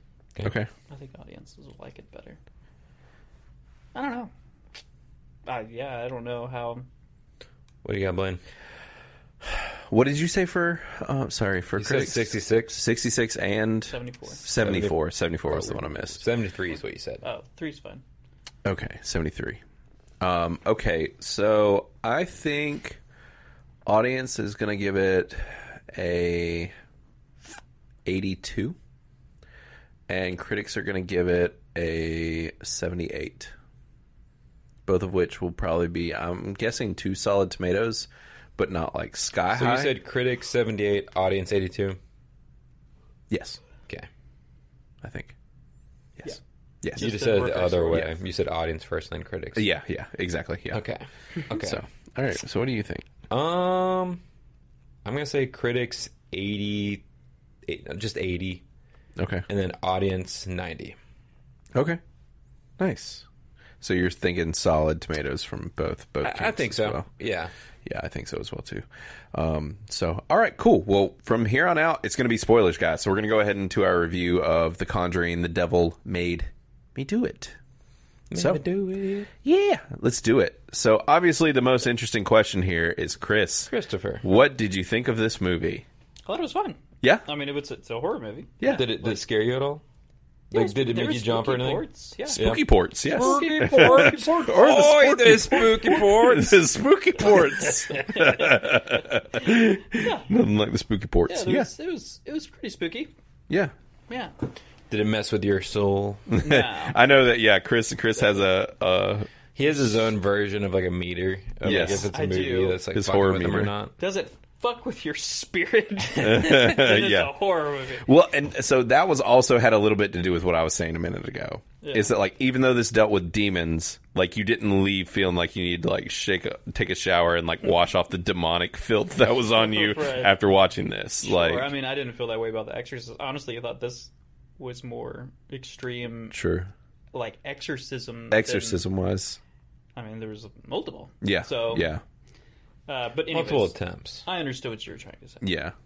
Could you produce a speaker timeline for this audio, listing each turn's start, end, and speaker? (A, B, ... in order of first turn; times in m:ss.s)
0:00.4-0:00.7 A
0:00.9-0:02.4 B
0:03.9-0:04.3 B
0:05.4-0:06.9 B
0:07.8-0:08.4 C
0:09.4-0:16.2 A
0:11.8-0:12.8 C
0:13.9-0:14.4 B
0:14.6-0:17.2 C
0:17.2-0:18.0 B
0:18.6-0:19.6 A
0:20.2-0:23.0 A
0:23.8-0:26.7 A
0:28.0-0:28.8 A
0:30.1-0:33.5 A
0:34.8-0:40.0 A
0:39.5-0:42.0 C
0:43.3-0:43.6 A
0:45.0-0:45.3 A
0:46.2-0:47.1 A
0:47.0-0:48.1 B
0:47.0-0:49.6 C
0:49.5-0:50.8 A
0:50.7-0:51.8 C
0:51.5-0:53.1 A
0:53.3-0:54.2 C
0:55.0-0:57.0 C
0:57.6-0:58.6 C
0:59.2-0:59.4 A
0:59.5-1:01.0 C
1:01.7-1:02.0 A
1:02.8-1:03.2 A
1:03.8-1:07.0 A
1:06.2-1:07.5 C
1:07.8-1:17.6 A
1:18.3-1:19.3 C
1:18.3-1:18.6 A
1:19.4-1:23.7 A
1:23.7-1:24.2 C
1:24.2-1:25.8 A
1:26.2-1:29.2 B
1:28.6-1:28.9 A
1:28.6-1:29.8 C
1:30.5-1:36.6 C
1:30.5-1:35.0 B
1:32.3-1:41.7 A
1:37.2-1:40.3 B
1:41.3-1:43.1 B
1:44.9-1:46.3 C
1:46.3-1:49.9 A
1:46.4-1:47.0 B
1:49.6-1:53.9 C
1:51.6-1:52.1 A
1:51.6-1:52.8 B
1:52.9-1:53.7 A
1:54.0-1:58.1 B
1:56.2-1:57.4 A
1:58.0-2:11.7 A
2:01.8-2:02.1 B
2:09.6-2:10.3 B
2:11.2-2:16.4 B
2:16.3-2:16.7 A
2:17.1-2:18.8 B
2:18.3-2:19.4 A
2:19.9-2:21.9 B
2:21.2-2:22.0 A
2:22.9-2:23.7 B
2:23.3-2:24.2 C
2:24.2-2:25.4 B
2:25.4-2:25.7 A